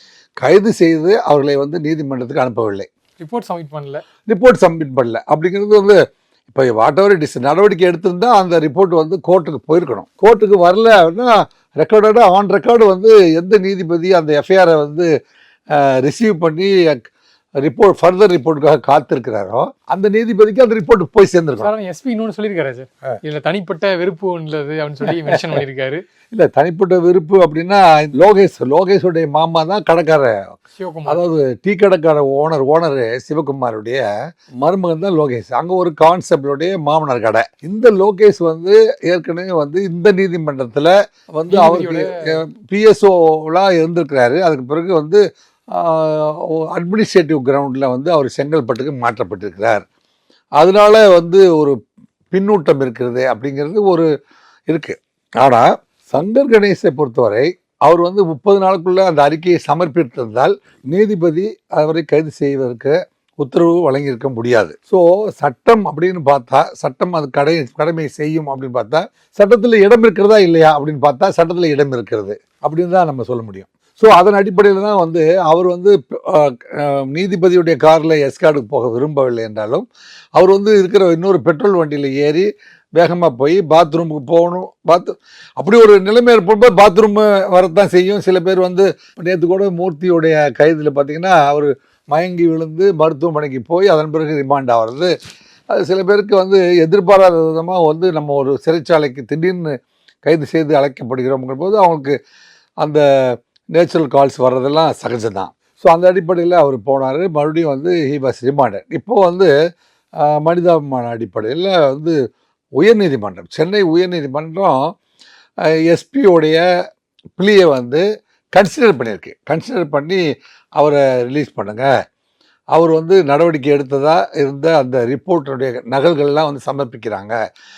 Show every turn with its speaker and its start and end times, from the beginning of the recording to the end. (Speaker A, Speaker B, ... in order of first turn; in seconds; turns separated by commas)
Speaker A: 0.4-2.9, Speaker B: 3.2-4.0, Speaker A: 4.3-6.0, Speaker A: 6.5-15.1, Speaker A: 15.7-17.0, Speaker A: 17.6-21.7, Speaker B: 21.6-26.0, Speaker A: 26.3-34.0, Speaker B: 30.8-31.2, Speaker A: 34.6-45.2, Speaker B: 41.5-42.1, Speaker A: 45.7-49.8, Speaker A: 50.6-51.8, Speaker A: 52.3-54.1, Speaker A: 54.7-79.8, Speaker A: 80.4-95.1, Speaker A: 95.8-102.2, Speaker A: 102.8-109.5, Speaker A: 110.2-112.2, Speaker A: 112.8-114.8, Speaker A: 115.9-116.6, Speaker A: 117.4-118.0, Speaker A: 118.5-120.2, Speaker A: 120.8-121.9, Speaker A: 122.7-127.3